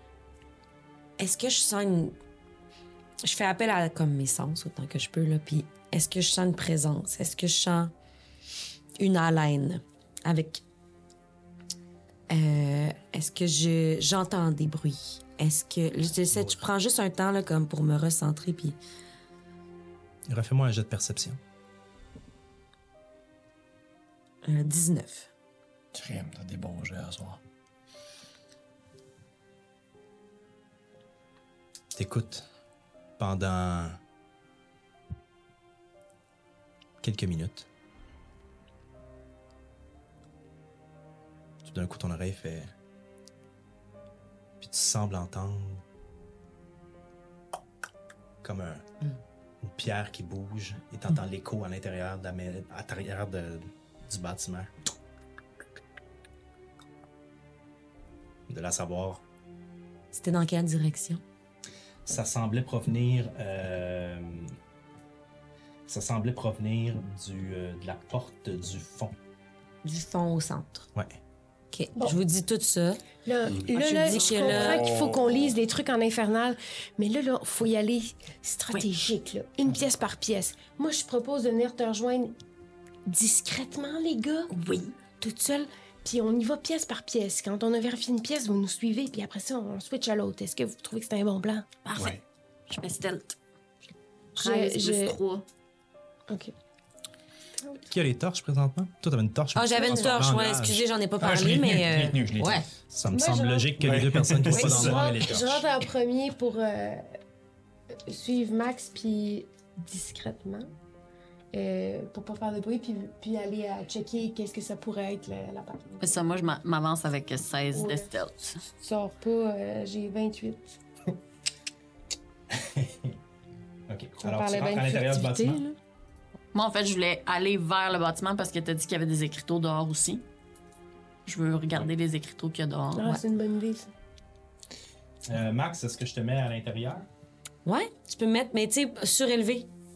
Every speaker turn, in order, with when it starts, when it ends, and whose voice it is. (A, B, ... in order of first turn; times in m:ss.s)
0:01.2-0:02.2 A
0:03.2-0:07.9 A
0:09.0-0:10.6 A
0:12.3-0:18.8 A
0:16.3-0:16.6 B
0:20.3-0:21.4 B
0:24.4-0:25.3 A
0:25.9-0:27.4 C
0:31.9-0:32.5 B
0:33.2-0:34.0 B
0:37.0-0:37.7 B
0:41.6-0:42.7 B
0:44.6-0:45.8 B
0:48.4-0:48.9 B
0:49.6-0:54.7 B
0:58.5-0:59.2 B
1:00.1-1:01.2 A
1:02.0-1:04.6 B
1:05.9-1:09.2 B
1:09.8-1:10.9 A
1:11.7-1:13.0 A
1:13.2-1:22.3 D
1:13.7-1:14.9 A
1:14.0-1:14.5 E
1:14.6-1:15.5 C
1:23.0-1:24.5 D
1:24.5-1:24.9 E
1:25.2-1:31.7 D
1:31.8-1:33.4 E
1:34.4-1:35.2 D
1:34.4-1:35.4 E
1:37.9-1:40.8 B
1:39.5-1:42.6 A
1:39.8-1:40.1 D
1:41.2-1:42.6 C
1:42.9-1:45.6 B
1:43.1-1:43.8 D
1:43.9-1:44.5 C
1:44.5-1:47.1 D
1:48.1-1:50.7 D
1:51.5-1:56.3 D
1:56.0-1:58.6 E
1:57.7-1:58.1 D
1:58.7-2:00.8 D
2:02.5-2:03.2 B
2:03.9-2:05.6 B
2:04.2-2:05.7 D
2:06.5-2:10.2 E
2:11.2-2:13.1 E
2:12.9-2:13.9 D
2:15.2-2:17.1 B
2:17.6-2:19.7 A